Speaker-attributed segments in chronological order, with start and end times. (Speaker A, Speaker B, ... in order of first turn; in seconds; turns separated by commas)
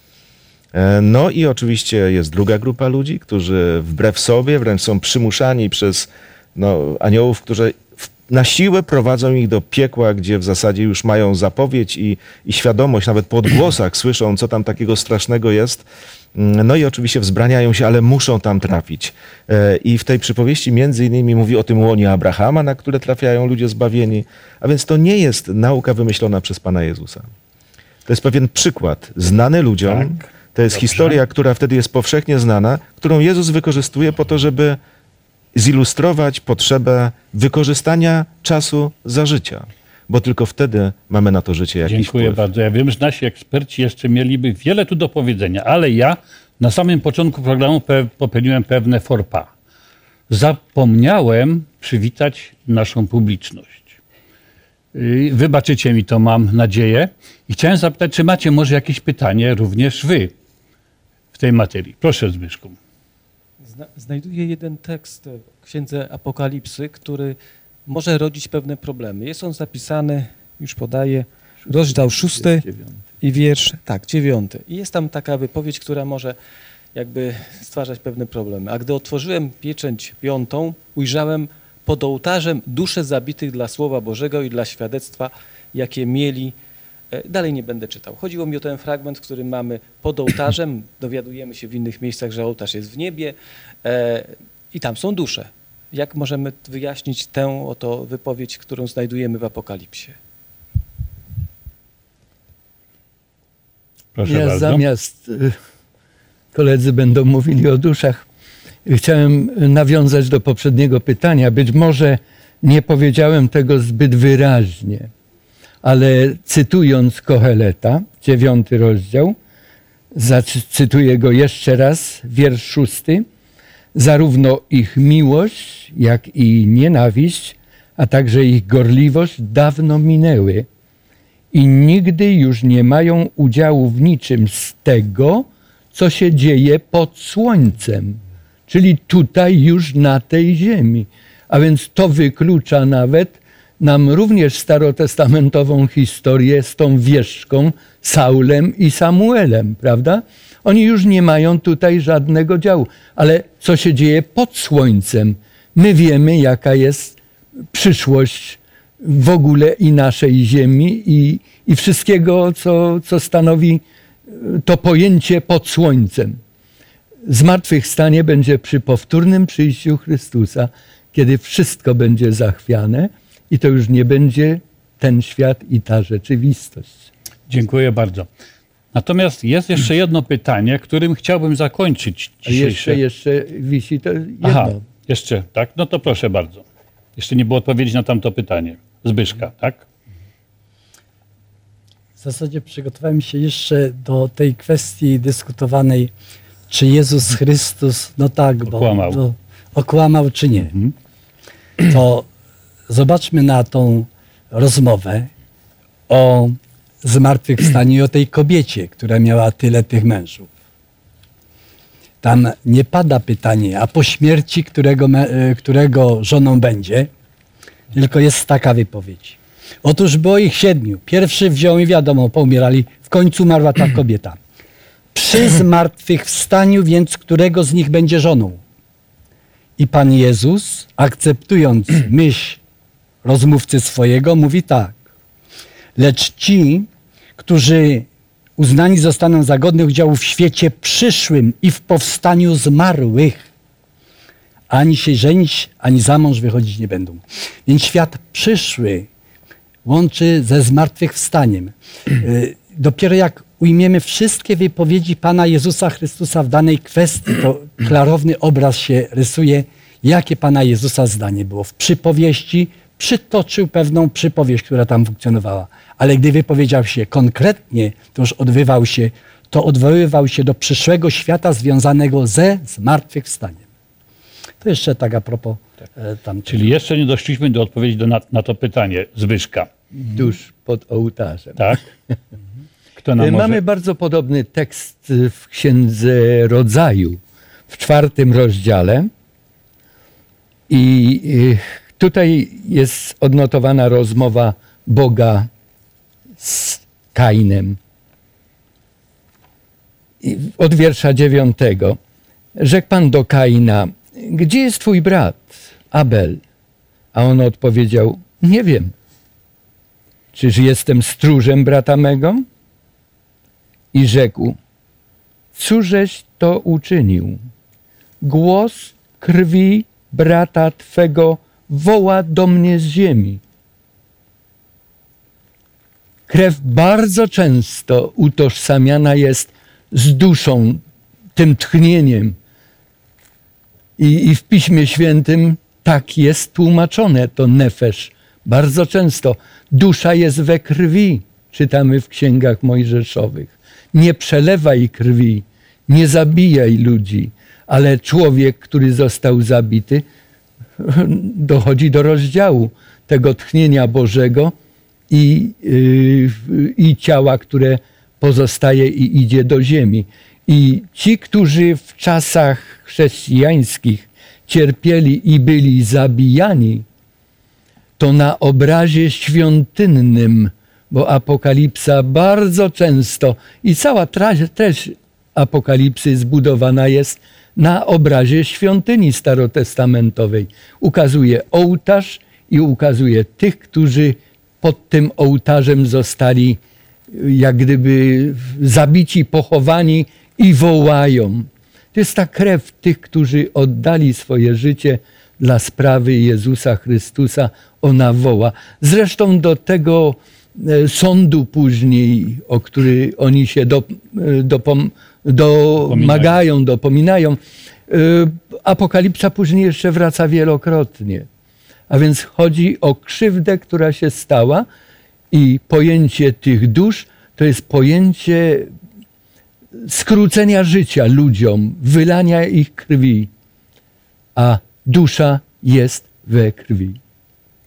Speaker A: 0.7-27.3, Speaker A: 28.1-34.8, Speaker B: 29.9-30.2, Speaker B: 30.7-31.2, Speaker A: 35.5-42.4, Speaker B: 41.9-49.5, Speaker B: 50.3-54.0, Speaker B: 54.9-60.3, Speaker B: 61.3-62.8, Speaker C: 63.6-76.4, Speaker C: 76.9-86.6, Speaker C: 87.1-100.2, Speaker B: 104.2-104.8, Speaker D: 104.3-105.6, Speaker D: 106.5-108.2, Speaker D: 108.9-115.1, Speaker D: 115.8-119.4, Speaker D: 120.1-123.2, Speaker D: 124.0-130.7, Speaker D: 131.5-157.2, Speaker D: 157.7-166.4, Speaker D: 167.3-177.1, Speaker B: 177.5-178.3, Speaker B: 178.9-183.0, Speaker D: 182.5-184.8, Speaker B: 184.4-186.7, Speaker B: 187.2-189.8, Speaker E: 192.2-196.1, Speaker E: 196.7-200.9, Speaker B: 198.7-199.2, Speaker E: 201.8-202.3, Speaker E: 202.9-205.3, Speaker E: 206.1-210.5, Speaker E: 212.2-217.1, Speaker E: 217.9-224.4, Speaker E: 225.1-228.6, Speaker E: 229.8-232.6, Speaker E: 233.2-235.0, Speaker E: 236.0-243.5, Speaker E: 244.7-249.1, Speaker E: 249.8-273.6, Speaker E: 274.6-276.6, Speaker B: 276.5-279.7, Speaker D: 280.0-281.8, Speaker B: 283.0-283.6, Speaker D: 283.2-289.1, Speaker D: 290.7-295.5, Speaker D: 296.4-297.8, Speaker D: 300.2-302.0, Speaker D: 302.6-306.4, Speaker D: 307.1-308.9, Speaker D: 310.3-312.5, Speaker D: 313.9-314.6, Speaker D: 315.6-317.4, Speaker D: 318.2-323.4, Speaker D: 326.3-330.8, Speaker D: 331.4-332.4, Speaker D: 334.0-350.0, Speaker D: 350.8-354.5, Speaker D: 355.1-366.9, Speaker D: 368.0-386.6, Speaker D: 387.1-411.3, Speaker B: 405.8-406.4, Speaker D: 411.9-414.7, Speaker D: 415.3-418.7, Speaker D: 419.8-423.3, Speaker D: 424.4-427.0